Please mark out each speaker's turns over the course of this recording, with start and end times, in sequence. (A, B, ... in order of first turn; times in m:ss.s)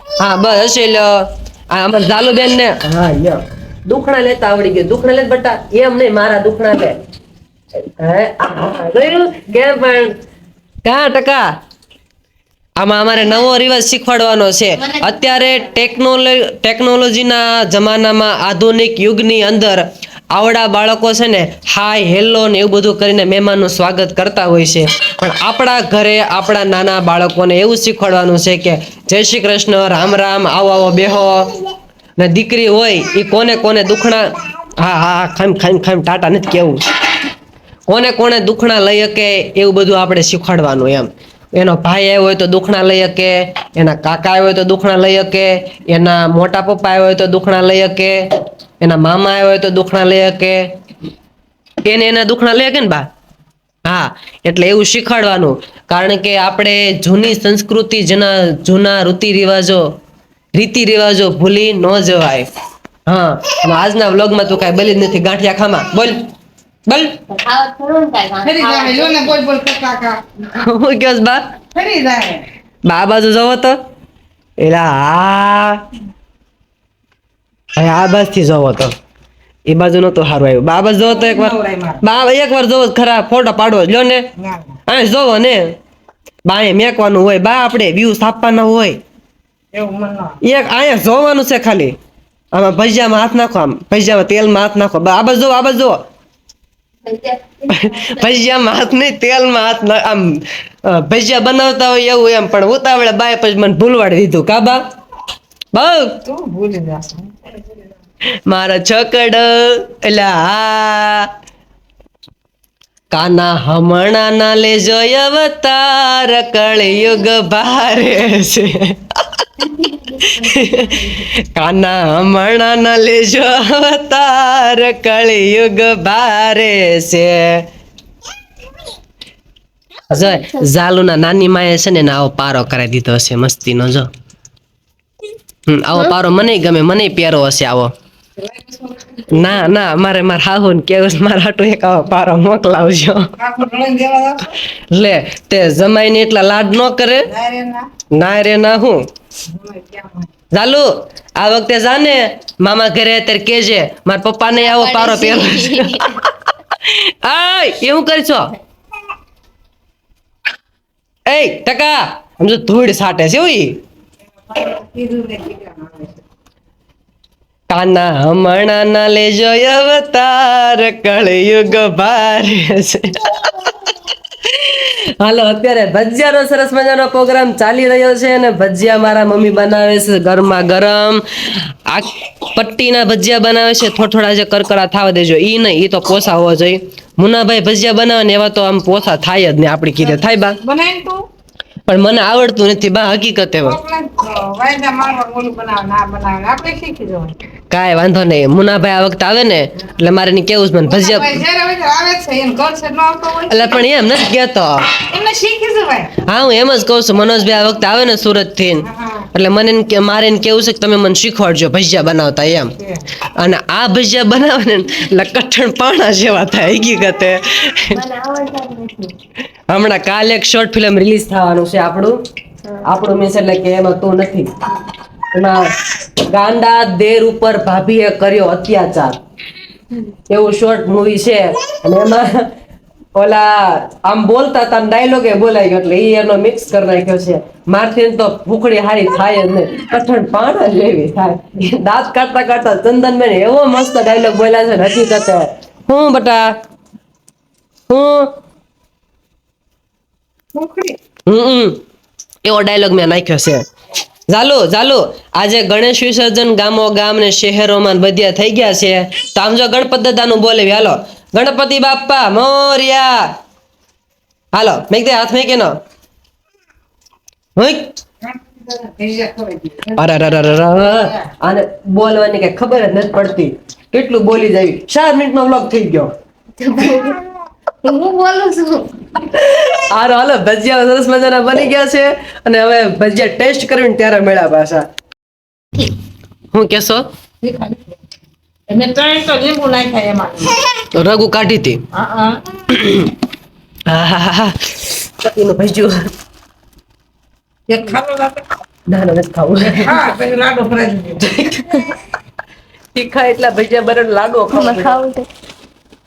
0:00.2-0:07.0 A
0:08.0-0:10.2 A
0:10.8-0:11.4 A
0:12.8-0:31.6 A
0:14.8-0:15.8 B
0:32.2-0:36.8 A
0:37.9-0:48.2 A
0:48.8-0:50.6 A
0:51.8-0:53.0 A
0:53.9-0:59.9 A
1:00.5-1:02.5 A
1:03.1-1:06.2 A
1:06.9-1:07.2 A
1:07.3-1:09.4 B
1:08.4-1:10.2 C
1:10.5-1:11.5 A
1:11.7-1:12.5 C
1:12.8-1:13.8 A
1:14.6-1:15.8 A
1:17.8-1:18.9 A
1:19.7-1:24.2 A
1:21.1-1:22.0 C
1:24.4-1:24.8 C
1:24.9-1:25.7 A
1:26.4-1:29.0 A
1:29.7-1:30.4 C
1:30.4-1:31.9 A
1:32.5-1:36.0 A
1:37.0-1:38.4 B
1:37.7-1:44.8 A
1:45.7-1:46.2 A
1:46.2-1:47.8 C
1:48.5-1:51.3 A
1:53.1-1:59.0 A
1:59.6-2:01.2 B
2:00.4-2:07.6 A
2:10.1-2:14.1 A
2:10.1-2:10.7 B
2:15.7-2:17.9 A
2:18.4-2:19.5 C
2:19.3-2:23.3 A
2:23.4-2:24.5 C
2:24.9-2:27.3 A
2:27.3-2:27.9 C
2:28.1-2:29.0 A
2:29.5-2:30.3 C
2:30.5-2:38.5 A
2:34.6-2:36.2 B
2:41.3-2:43.8 A
2:44.5-2:46.2 C
2:47.7-2:53.7 A
2:54.4-3:10.6 A
3:10.6-3:11.2 C
3:11.9-3:13.8 A
3:13.6-3:17.4 C
3:17.7-3:21.4 A
3:20.8-3:23.8 C
3:23.5-3:24.9 A
3:25.1-3:26.1 C
3:26.3-3:32.7 A
3:28.8-3:29.3 C
3:32.8-3:33.1 C
3:33.4-3:38.0 A
3:37.9-3:39.1 B
3:39.7-3:42.2 A
3:42.7-3:43.0 B
3:42.8-3:44.5 A
3:45.3-3:45.6 A
3:46.2-3:49.2 A
3:50.3-3:52.5 A
3:53.2-4:06.5 A
4:07.9-4:08.3 A
4:10.5-4:11.0 C
4:11.3-4:11.8 A
4:12.4-4:13.6 A
4:14.3-4:23.2 A
4:24.5-4:25.7 A
4:27.6-4:27.9 A
4:28.2-4:30.0 C
4:30.0-4:36.1 A
4:36.6-4:37.2 B
4:37.8-4:38.9 B
4:39.3-4:44.8 A
4:46.5-4:47.0 A
4:47.4-4:47.8 C
4:48.7-4:50.7 C
4:50.9-4:51.8 A
4:51.9-4:52.6 C
4:52.7-4:53.1 A
4:53.9-4:56.1 A
4:57.7-4:58.4 C
4:58.9-5:00.0 A
4:59.6-5:01.3 C
5:01.2-5:01.8 A
5:02.9-5:05.0 A
5:04.5-5:05.3 B